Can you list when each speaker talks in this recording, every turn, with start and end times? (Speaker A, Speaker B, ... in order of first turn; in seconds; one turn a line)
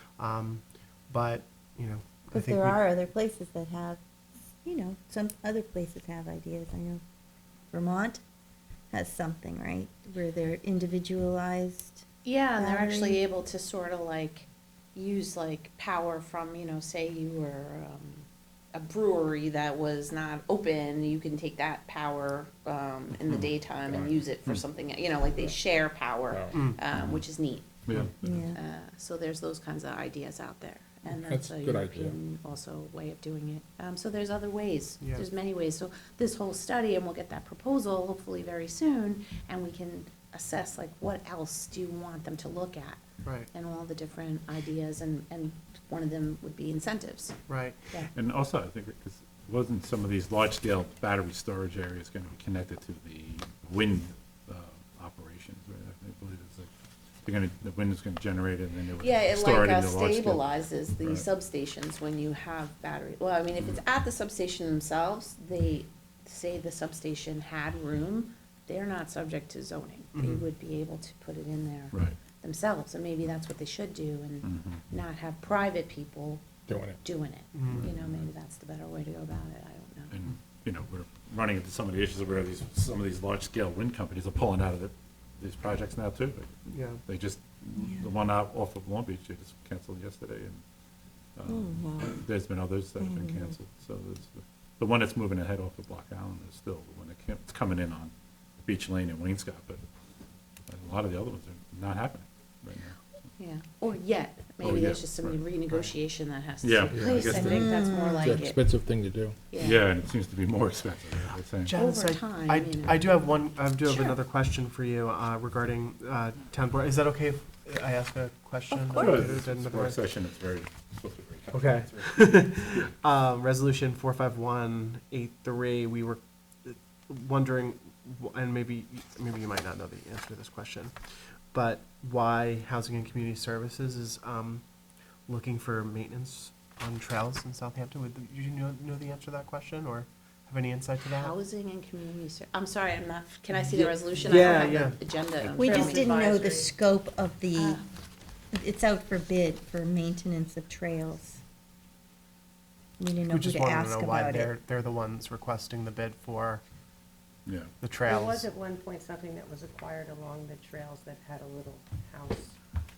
Speaker A: 0.2-2.8
Speaker B: 2.3-4.0
Speaker B: 4.6-7.0
Speaker B: 7.7-8.2
Speaker B: 8.9-13.2
Speaker C: 12.2-43.0
Speaker D: 23.2-24.6
Speaker E: 26.3-26.6
Speaker D: 26.9-27.2
Speaker D: 27.8-28.5
Speaker B: 28.2-28.6
Speaker E: 31.1-32.2
Speaker A: 35.0-35.3
Speaker A: 43.2-43.5
Speaker C: 43.5-47.4
Speaker A: 47.5-47.8
Speaker D: 48.1-56.7
Speaker D: 57.2-61.3
Speaker C: 59.0-76.4
Speaker A: 70.1-70.5
Speaker D: 74.4-74.8
Speaker E: 76.7-77.0
Speaker C: 77.0-80.1
Speaker A: 77.5-77.9
Speaker D: 77.7-78.2
Speaker D: 80.1-90.6
Speaker A: 86.7-87.0
Speaker B: 87.8-88.1
Speaker D: 91.3-98.1
Speaker B: 91.5-92.2
Speaker B: 93.0-93.5
Speaker D: 98.6-99.8
Speaker D: 100.7-103.0
Speaker C: 103.4-108.7
Speaker D: 104.6-105.9
Speaker D: 106.6-107.7
Speaker E: 106.9-109.4
Speaker B: 107.5-108.3
Speaker C: 109.5-109.8
Speaker D: 109.6-111.7
Speaker A: 111.6-120.0
Speaker C: 111.7-113.1
Speaker C: 113.8-114.2
Speaker D: 118.9-122.9
Speaker A: 121.5-130.9
Speaker A: 131.5-134.6
Speaker A: 135.3-141.3
Speaker C: 141.2-146.2
Speaker A: 143.7-145.0
Speaker F: 144.2-144.8
Speaker D: 145.4-145.8
Speaker B: 145.6-147.8
Speaker F: 145.7-146.7
Speaker C: 147.5-147.8
Speaker B: 148.5-151.4
Speaker B: 153.0-154.5
Speaker A: 153.3-156.6
Speaker D: 157.4-157.7
Speaker A: 157.8-158.5
Speaker F: 158.0-162.6